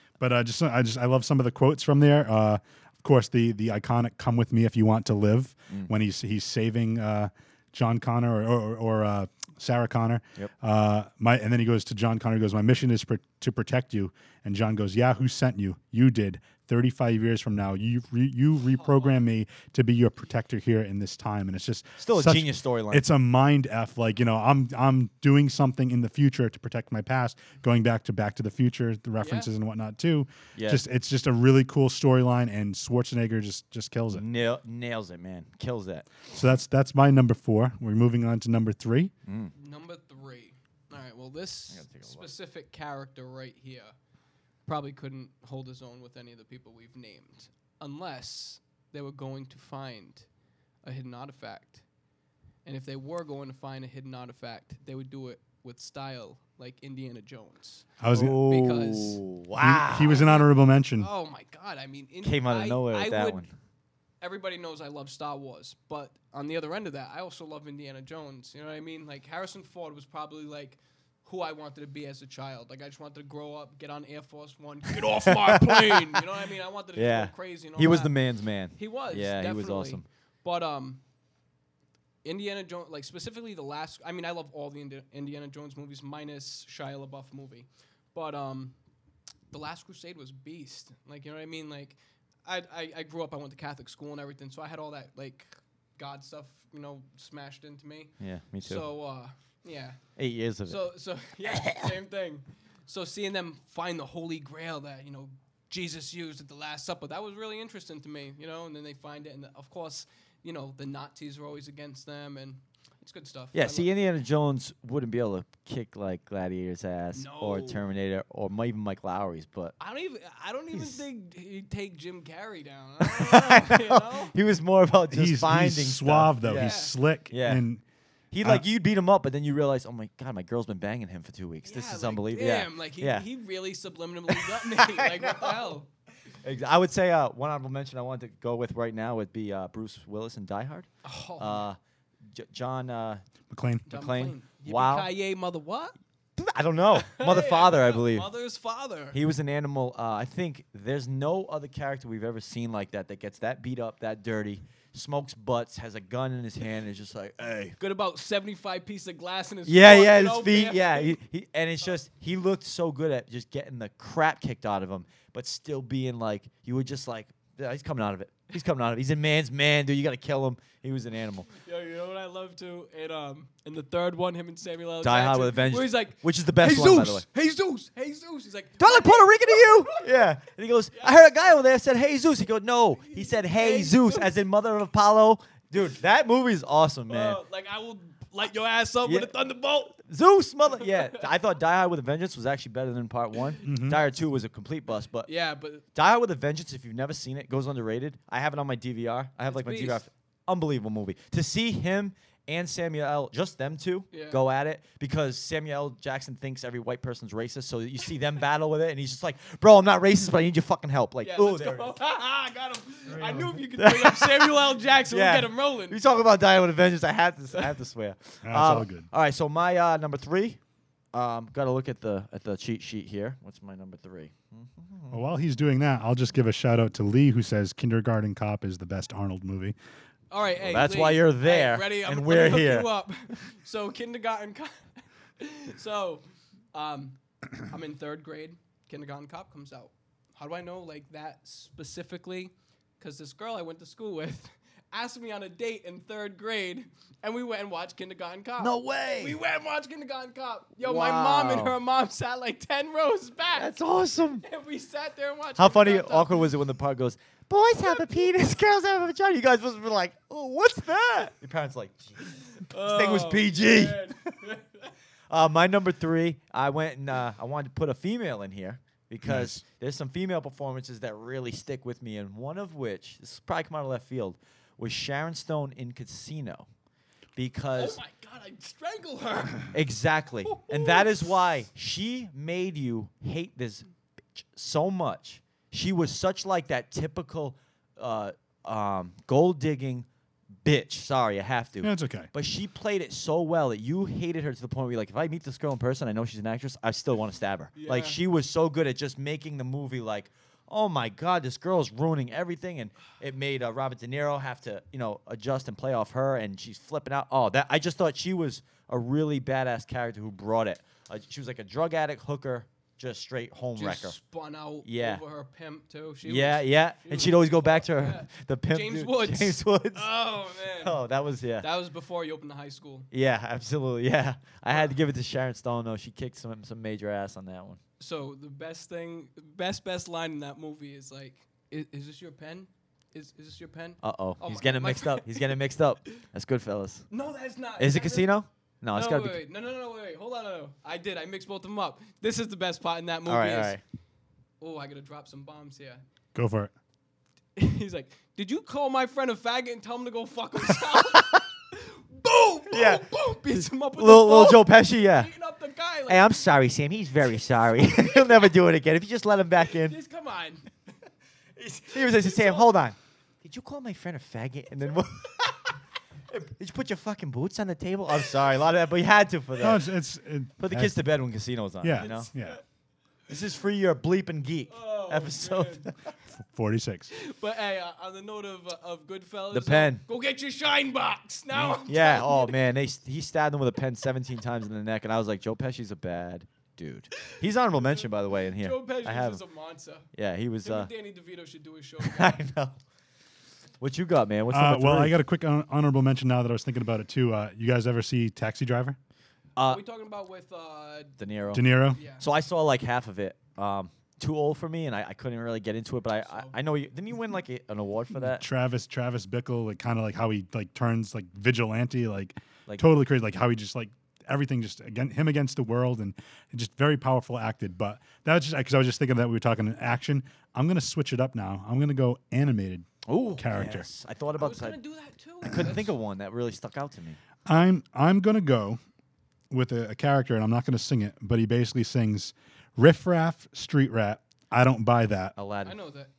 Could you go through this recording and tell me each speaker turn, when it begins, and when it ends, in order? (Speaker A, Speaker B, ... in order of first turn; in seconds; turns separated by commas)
Speaker A: 0.2-34.2, Speaker B: 18.7-19.2, Speaker C: 22.0-23.0, Speaker B: 29.2-29.5, Speaker C: 30.5-30.8, Speaker C: 34.1-36.1, Speaker A: 36.3-39.1, Speaker C: 39.3-39.5, Speaker B: 39.5-43.9, Speaker C: 41.7-42.3, Speaker B: 44.6-50.2, Speaker B: 50.8-51.8, Speaker B: 52.6-59.2, Speaker A: 58.0-58.4, Speaker C: 58.1-60.3, Speaker A: 59.6-61.1, Speaker B: 60.0-63.4, Speaker C: 62.2-63.5, Speaker B: 64.2-78.2, Speaker C: 75.2-76.2, Speaker C: 76.9-80.0, Speaker B: 78.7-81.0, Speaker B: 82.2-88.7, Speaker B: 89.5-100.1, Speaker C: 98.2-98.8, Speaker C: 100.2-100.8, Speaker B: 100.6-113.9, Speaker C: 101.5-101.9, Speaker C: 113.5-119.8, Speaker B: 117.1-117.8, Speaker B: 119.8-124.3, Speaker C: 120.7-121.0, Speaker C: 123.0-127.6, Speaker A: 125.1-127.8, Speaker B: 126.5-126.9, Speaker C: 128.3-133.2, Speaker B: 131.7-135.9, Speaker C: 134.3-135.8, Speaker C: 136.4-143.2, Speaker B: 141.0-141.7, Speaker A: 143.5-143.8, Speaker B: 143.9-145.9, Speaker C: 143.9-145.1, Speaker C: 146.4-148.3, Speaker B: 146.9-149.2, Speaker C: 149.1-157.8, Speaker B: 157.8-161.2, Speaker C: 159.7-171.5, Speaker B: 171.6-180.1, Speaker C: 175.0-177.2, Speaker C: 178.8-187.4, Speaker B: 183.0-184.3, Speaker B: 187.1-190.0, Speaker C: 189.0-189.3, Speaker C: 190.0-195.3, Speaker A: 193.6-194.0, Speaker B: 195.2-195.8, Speaker C: 195.9-211.9, Speaker B: 199.4-200.0, Speaker B: 204.1-204.4, Speaker B: 211.2-216.0, Speaker C: 213.2-220.6, Speaker A: 218.4-219.1, Speaker C: 221.1-225.2, Speaker A: 225.1-229.8, Speaker B: 230.3-253.7, Speaker C: 230.6-232.9, Speaker C: 248.6-249.4, Speaker C: 250.8-251.8, Speaker C: 253.5-254.4, Speaker B: 254.4-256.5, Speaker C: 255.6-264.1, Speaker B: 257.9-258.3, Speaker B: 262.6-264.9, Speaker C: 265.3-276.7, Speaker A: 269.2-269.6, Speaker C: 277.4-278.0, Speaker B: 277.8-279.7, Speaker C: 279.7-290.1, Speaker B: 280.5-281.2, Speaker C: 290.6-314.1, Speaker A: 291.8-292.3, Speaker B: 297.8-298.2, Speaker B: 313.8-321.0, Speaker C: 314.8-315.2, Speaker C: 316.2-320.1, Speaker C: 320.8-321.7, Speaker B: 321.6-323.1, Speaker C: 323.1-327.8, Speaker B: 328.0-335.6, Speaker C: 334.0-337.1, Speaker B: 337.1-338.4, Speaker C: 337.8-339.4, Speaker B: 338.9-343.8, Speaker C: 343.2-343.8, Speaker B: 344.6-346.0, Speaker A: 346.3-346.7, Speaker B: 347.6-356.3, Speaker C: 352.7-355.3, Speaker C: 356.1-359.9, Speaker B: 357.9-358.4, Speaker B: 359.6-360.8, Speaker B: 361.6-362.7, Speaker C: 361.9-365.4, Speaker C: 366.3-369.9, Speaker A: 369.6-370.9, Speaker C: 370.6-372.3, Speaker A: 371.8-372.6, Speaker B: 372.0-372.6, Speaker C: 373.3-375.9, Speaker B: 374.7-375.9, Speaker A: 376.4-377.1, Speaker B: 377.1-382.6, Speaker C: 379.5-380.0, Speaker C: 381.8-389.4, Speaker B: 387.4-390.1, Speaker C: 390.1-390.9, Speaker B: 390.6-392.4, Speaker C: 392.0-392.8, Speaker C: 393.8-395.2, Speaker A: 394.5-399.0, Speaker C: 399.6-399.8, Speaker B: 399.6-401.2, Speaker C: 401.2-408.4, Speaker A: 401.5-402.0, Speaker B: 401.9-402.2, Speaker B: 406.1-406.6, Speaker A: 408.1-423.9, Speaker C: 423.1-424.8, Speaker B: 424.4-425.9, Speaker C: 425.4-427.2, Speaker A: 427.4-428.8, Speaker A: 429.5-435.3, Speaker C: 435.4-435.8, Speaker B: 435.6-436.1